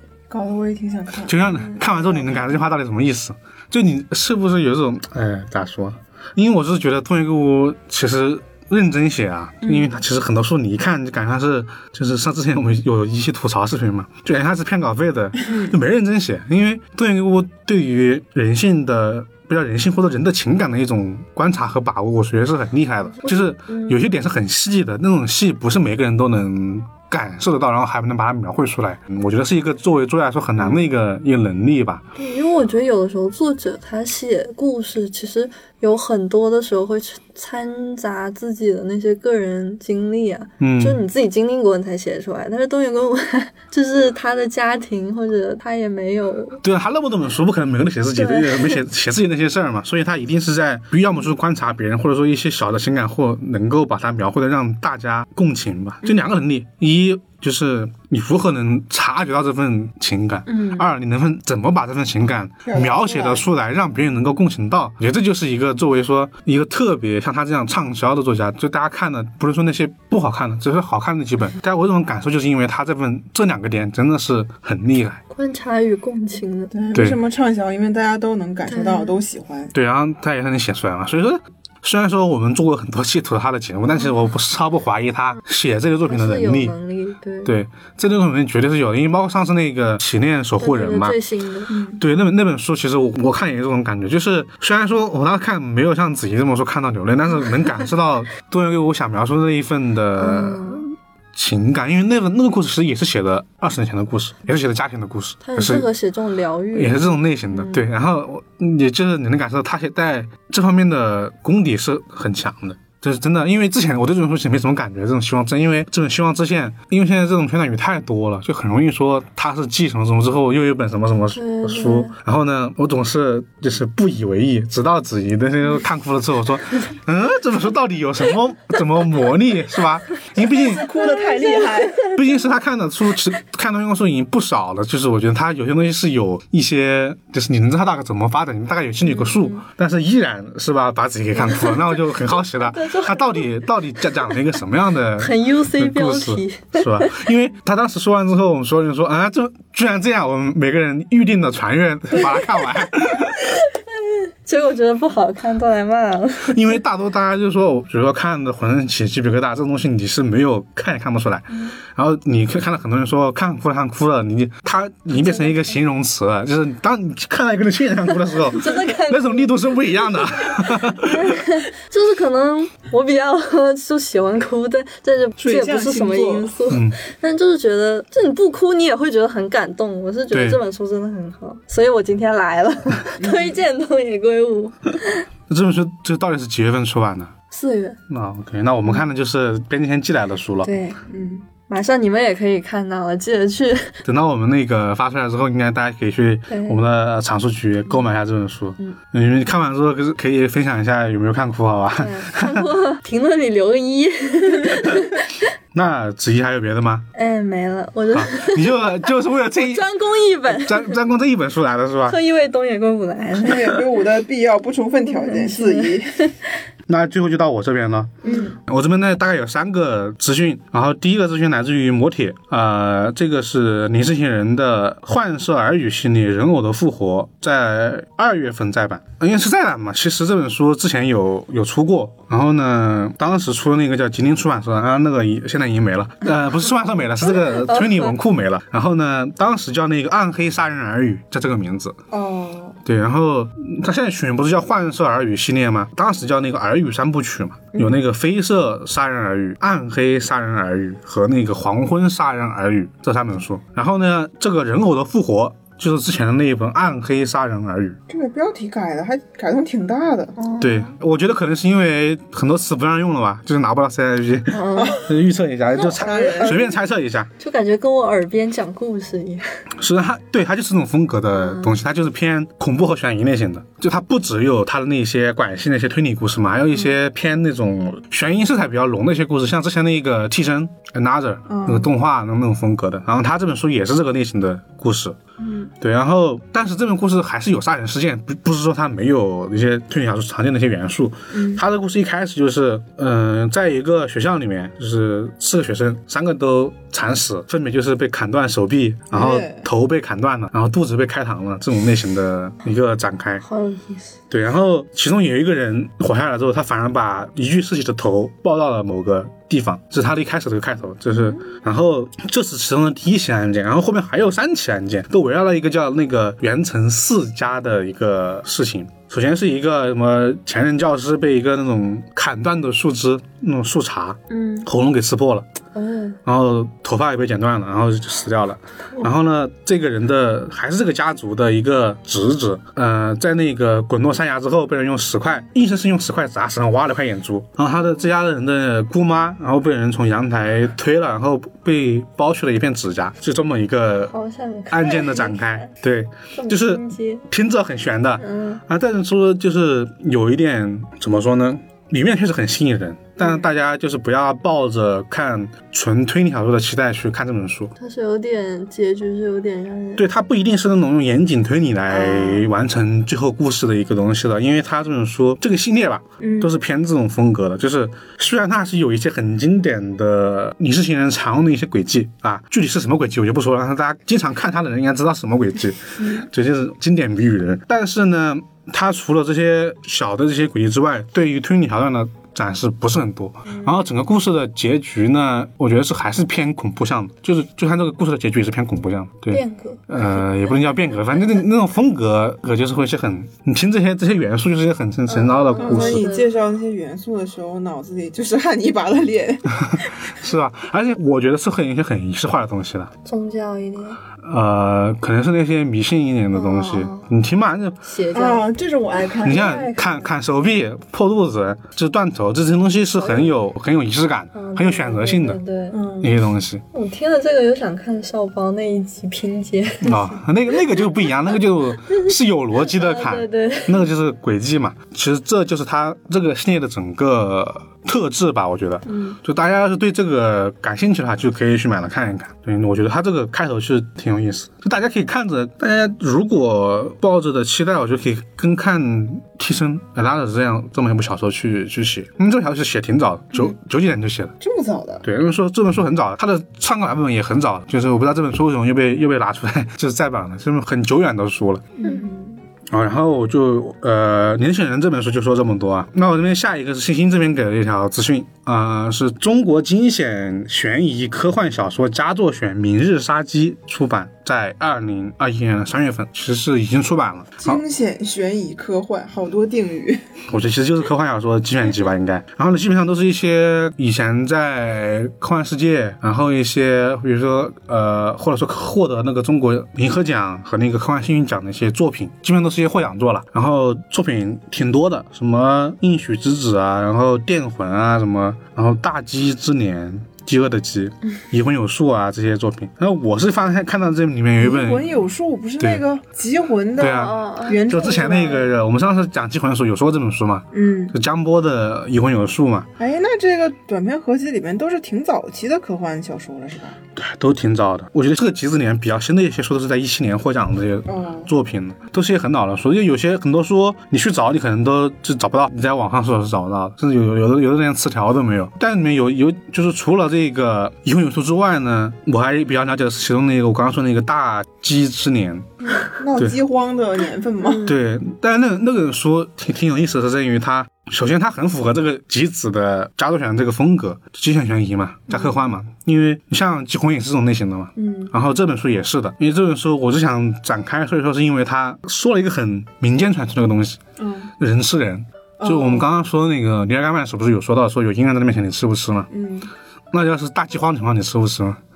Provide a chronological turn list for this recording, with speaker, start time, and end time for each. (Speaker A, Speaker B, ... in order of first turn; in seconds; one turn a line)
Speaker A: 0.3-2.1
Speaker B: 1.3-32.0
Speaker C: 23.2-24.1
Speaker C: 32.2-46.6
Speaker B: 40.6-41.0
Speaker B: 46.6-75.2
Speaker C: 48.2-48.8
Speaker C: 60.5-60.9
Speaker A: 62.6-63.5
Speaker C: 75.3-76.7
Speaker A: 76.7-79.7
Speaker C: 78.7-79.1
Speaker B: 79.7-86.8
Speaker C: 86.0-87.5
Speaker B: 87.5-91.2
Speaker C: 90.6-91.8
Speaker A: 91.7-92.0
Speaker B: 92.0-105.9
Speaker C: 100.2-100.8
Speaker C: 105.4-107.8
Speaker B: 106.7-130.9
Speaker C: 121.3-122.1
Speaker A: 130.5-132.1
Speaker C: 130.8-132.2
Speaker B: 132.2-153.4
Speaker C: 139.0-139.6
Speaker C: 141.4-141.9
Speaker C: 142.6-143.5
Speaker C: 145.2-147.3
Speaker C: 152.2-152.7
Speaker C: 153.3-156.7
Speaker B: 156.4-171.4
Speaker C: 165.1-165.8
Speaker C: 168.3-185.2
Speaker A: 175.4-176.6
Speaker B: 176.7-177.0
Speaker B: 180.3-180.6
Speaker A: 183.2-183.6
Speaker B: 185.5-187.3
Speaker C: 187.5-188.0
Speaker B: 188.1-190.7
Speaker C: 190.6-193.9
Speaker A: 191.1-191.4
Speaker B: 194.1-202.7
Speaker C: 196.5-196.8
Speaker C: 202.0-205.5
Speaker B: 205.7-207.1
Speaker C: 207.2-208.9
Speaker B: 208.1-209.8
Speaker C: 209.5-211.0
Speaker B: 210.5-212.2
Speaker C: 212.1-213.8
Speaker A: 213.4-216.2
Speaker C: 215.1-216.3
Speaker B: 216.9-242.0
Speaker C: 218.2-218.5
Speaker A: 218.2-218.6
Speaker C: 237.3-238.2
Speaker A: 242.1-242.8
Speaker B: 242.8-258.0
Speaker A: 258.1-260.4
Speaker C: 260.4-260.9
Speaker B: 260.6-267.3
Speaker C: 264.5-265.1
Speaker A: 264.7-265.1
Speaker A: 265.8-266.6
Speaker C: 265.8-266.7
Speaker C: 267.4-269.4
Speaker B: 269.8-285.2
Speaker C: 271.4-271.8
Speaker A: 281.5-281.9
Speaker A: 285.4-285.7
Speaker B: 285.8-303.4
Speaker A: 291.3-291.6
Speaker A: 299.1-299.7
Speaker C: 303.4-304.2
Speaker B: 304.3-325.5
Speaker C: 324.3-324.7
Speaker C: 325.8-326.2
Speaker B: 326.2-344.1
Speaker C: 344.1-345.7
Speaker B: 344.7-357.7
Speaker C: 346.3-347.2
Speaker C: 348.2-348.6
Speaker C: 357.8-360.1
Speaker B: 360.0-396.1
Speaker A: 366.2-366.5
Speaker C: 389.3-390.0
Speaker C: 395.1-396.3
Speaker A: 395.6-399.9
Speaker B: 399.5-402.9
Speaker C: 403.1-404.0
Speaker B: 404.2-407.8
Speaker C: 406.3-407.1
Speaker C: 407.8-408.5
Speaker A: 408.1-409.6
Speaker C: 409.2-410.1
Speaker B: 409.2-415.4
Speaker C: 413.0-413.3
Speaker C: 414.4-415.8
Speaker A: 415.7-416.1
Speaker B: 416.0-416.6
Speaker C: 416.7-420.2
Speaker B: 419.8-444.3
Speaker C: 421.9-423.9
Speaker C: 428.9-429.2
Speaker A: 444.4-445.1
Speaker B: 445.0-451.7
Speaker A: 451.8-452.4
Speaker B: 452.7-467.6
Speaker A: 467.4-470.1
Speaker B: 470.3-494.9
Speaker A: 494.4-498.5
Speaker B: 496.8-502.7
Speaker C: 496.8-497.7
Speaker A: 500.5-500.9
Speaker A: 502.8-506.8
Speaker B: 507.0-525.5
Speaker A: 510.9-511.3
Speaker A: 526.0-527.7
Speaker C: 527.4-527.8
Speaker B: 527.6-543.8
Speaker A: 537.8-538.1
Speaker A: 544.0-544.3
Speaker B: 544.4-549.1
Speaker A: 545.4-545.9
Speaker A: 549.1-549.5
Speaker B: 549.9-551.6